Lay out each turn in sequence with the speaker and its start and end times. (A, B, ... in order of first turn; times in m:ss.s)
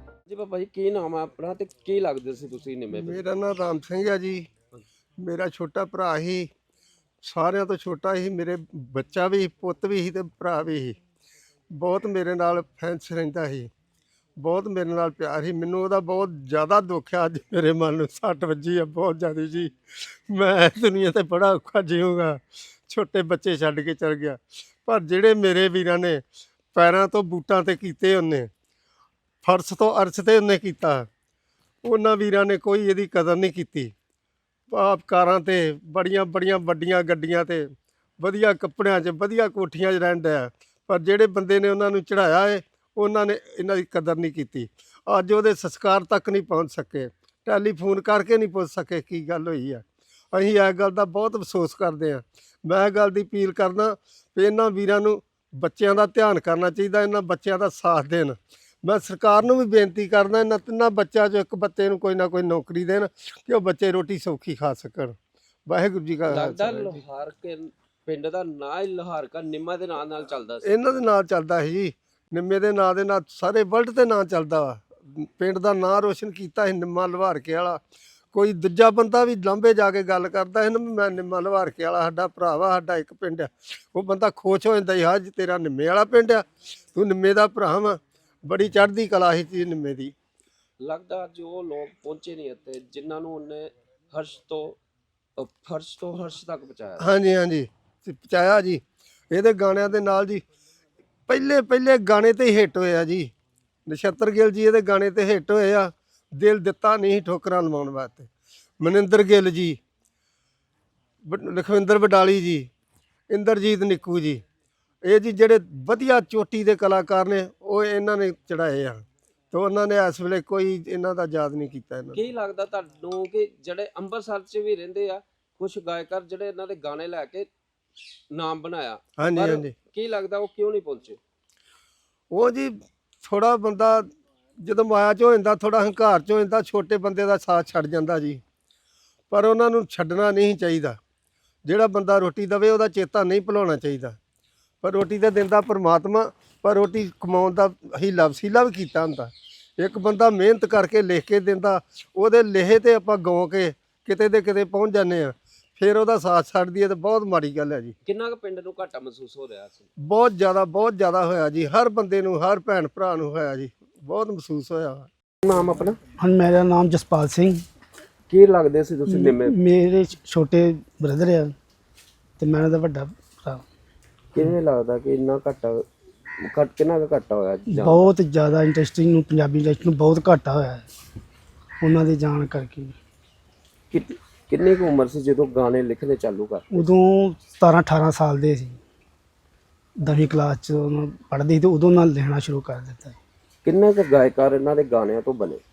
0:00.3-0:03.2 A
0:02.9-0:04.5 B
0:05.2-0:06.5 B
0:07.2-0:11.0 B
0:11.7-0:13.7 B
0:14.4-0:26.2 B
0:26.7-0:28.5 B
0:29.4-0:31.1 B
0:31.8-0:33.9 B
0:34.7-1:05.2 B
1:05.7-1:07.0 B
1:06.3-1:10.8 A
1:10.6-1:17.8 B
1:18.3-1:30.1 B
1:30.8-1:34.8 A
1:35.4-1:37.1 A
1:37.0-1:40.4 B
1:41.3-1:43.3 B
1:43.8-1:48.3 B
1:48.8-1:49.8 B
1:51.2-1:52.7 B
1:53.3-1:54.4 B
1:55.0-2:02.2 B
2:02.1-2:07.5 A
2:08.3-2:11.2 A
2:09.2-2:09.7 B
2:12.3-2:18.4 B
2:19.3-2:21.0 B
2:21.6-2:24.2 B
2:24.8-2:37.9 B
2:38.0-2:39.9 A
2:40.0-2:45.1 B
2:45.4-2:46.0 A
2:46.2-2:47.6 C
2:48.3-2:49.6 A
2:49.1-2:51.5 C
2:52.4-2:53.6 C
2:54.3-2:55.8 A
2:56.5-2:58.1 A
2:57.7-3:00.9 C
3:01.8-3:03.0 C
3:03.9-3:06.8 A
3:06.7-3:08.8 C
3:10.0-3:13.2 C
3:13.6-3:15.6 A